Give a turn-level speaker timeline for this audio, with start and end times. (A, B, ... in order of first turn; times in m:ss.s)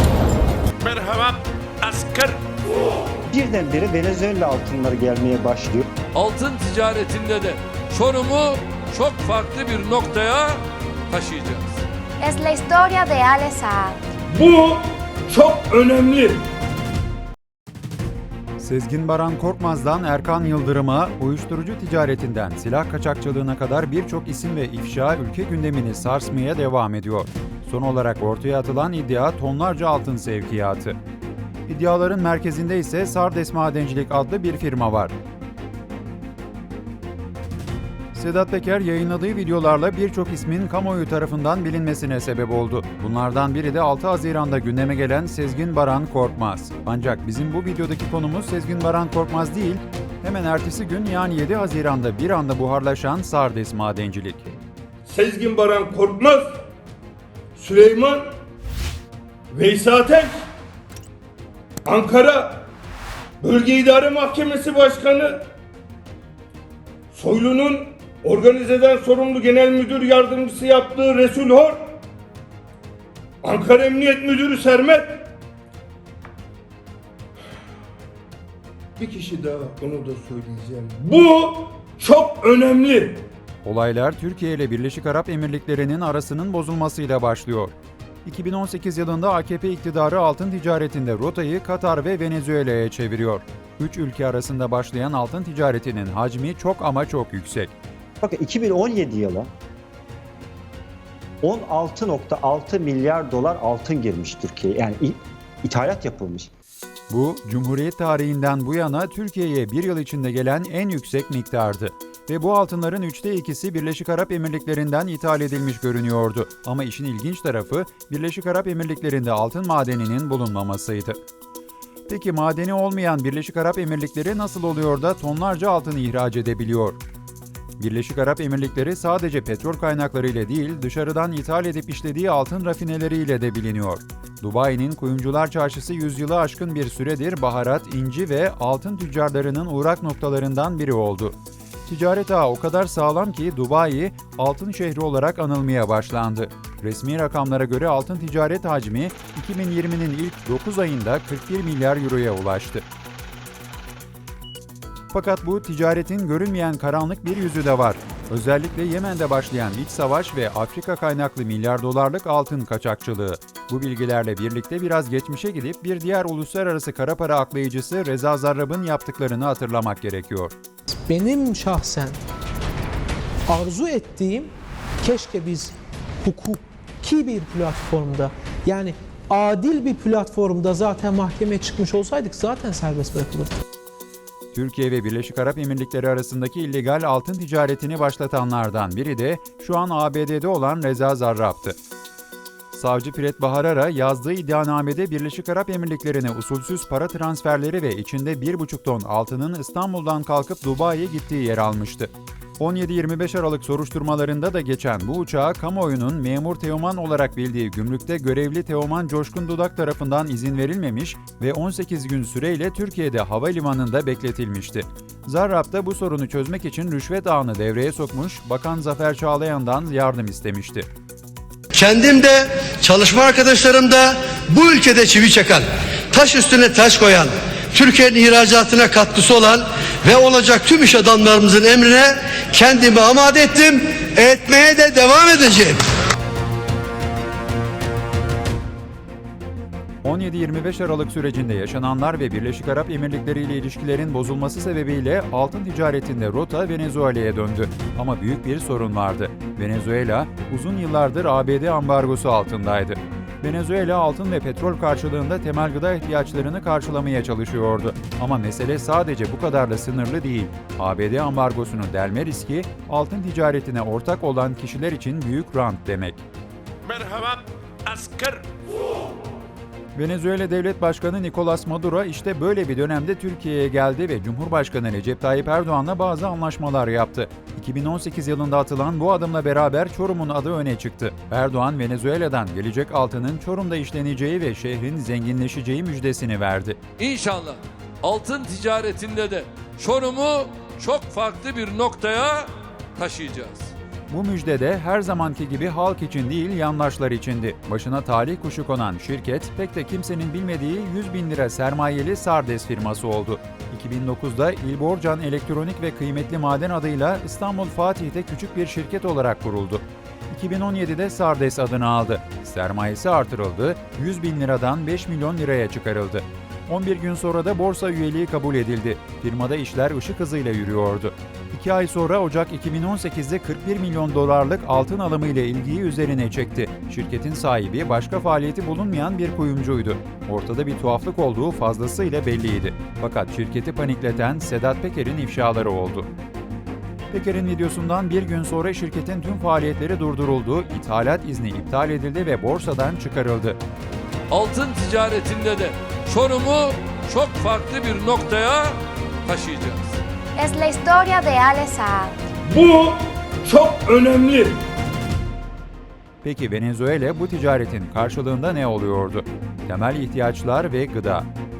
0:00.8-0:02.4 A
0:03.3-0:05.8 B
0:06.1-0:11.8 C
0:12.2-0:14.0 D
0:14.3-0:16.4 E
0:18.6-0:31.0 F
0:31.7-0:35.1 F
0:38.1-0:54.4 F
0:55.0-0:56.5 E
0:57.5-0:58.2 E
0:59.5-1:00.3 E
1:01.8-1:02.7 E
1:03.4-1:05.4 E
1:07.1-1:11.8 E
1:13.4-1:15.2 E
1:19.0-1:23.2 E
1:23.6-1:37.7 F
1:38.2-1:39.5 B
1:41.4-1:46.5 B
1:47.1-2:01.2 F
2:02.1-2:07.0 F
2:07.8-2:32.8 F
2:35.1-2:50.6 F
2:51.1-2:52.2 G
2:53.5-2:54.5 G
2:55.0-3:03.6 G
3:04.5-3:11.8 F
3:12.7-3:40.9 F
3:41.7-3:55.8 H
4:00.0-4:26.2 F
4:26.8-4:28.4 A
4:29.9-4:46.8 F
4:47.0-4:53.7 C
4:54.1-5:36.1 F
5:37.1-5:43.6 F
5:44.3-5:50.0 C
5:50.4-5:52.1 D
5:52.5-5:54.6 E
5:56.2-6:01.3 F